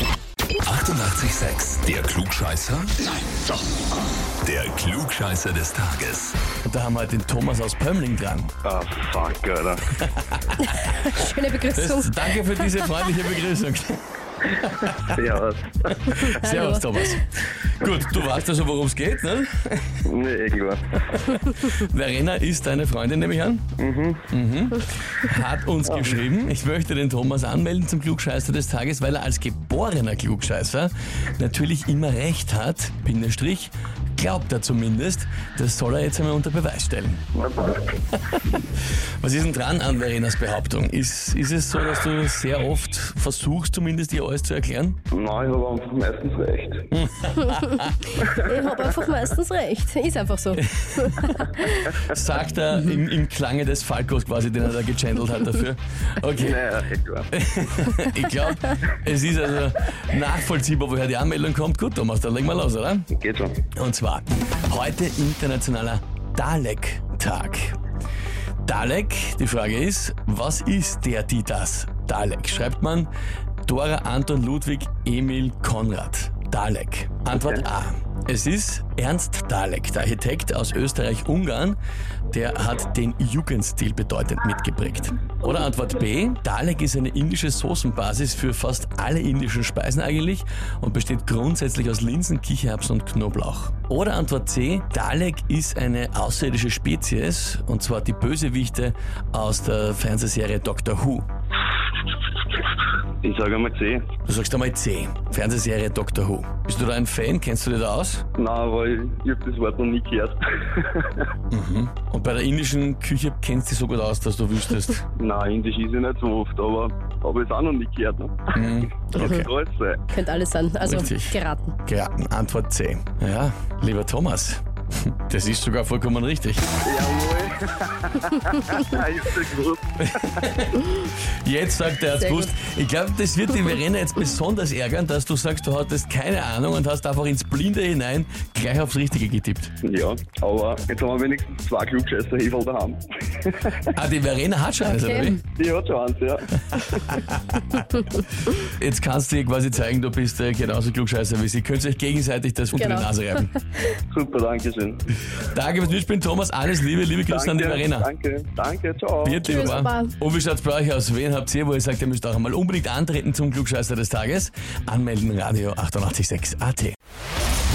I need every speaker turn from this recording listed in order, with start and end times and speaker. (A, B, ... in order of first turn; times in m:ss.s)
0:00.6-0:03.1 A
0:04.4-0:06.4 A
0:06.6-0:08.5 B
0:08.6-0:09.8 C
0:10.2-0:11.1 B
0:11.0-0:12.8 D
0:11.7-0:15.1 B
0:15.0-0:16.1 C
0:15.9-0:20.1 B
0:16.1-0:17.2 D
0:20.1-0:21.3 C
0:21.2-0:23.7 B
0:23.8-0:24.2 C
0:24.3-0:37.3 B
0:25.9-0:26.2 C
0:37.4-0:37.9 C
0:38.2-0:38.6 B
0:39.2-0:45.0 B
0:45.1-0:46.9 C
0:46.9-0:48.2 B
0:47.5-0:51.9 D
0:48.2-0:48.6 C
0:50.6-0:56.6 B
0:56.4-0:57.3 C
0:57.3-1:03.1 B
1:03.1-1:03.6 C
1:03.8-1:07.8 B
1:08.6-1:13.1 B
1:13.7-1:21.8 B
1:17.4-1:17.6 C
1:22.3-1:41.2 B
1:43.2-1:44.0 C
1:44.3-1:48.2 B
1:48.4-1:51.3 C
1:51.5-1:55.1 B
1:55.2-2:00.1 C
1:58.5-1:59.5 B
1:59.2-1:59.4 D
2:00.1-2:01.8 D
2:00.8-2:06.7 B
2:06.8-2:10.5 C
2:10.0-2:19.8 B
2:12.2-2:12.5 D
2:19.8-2:23.8 C
2:23.9-2:25.4 B
2:24.8-2:25.4 D
2:25.4-2:26.9 C
2:26.7-2:27.9 B
2:28.5-2:33.5 B
2:32.8-2:33.1 D
2:34.1-2:35.0 C
2:35.4-2:38.1 B
2:37.3-2:39.8 C
2:39.2-2:47.0 B
2:39.4-2:40.1 D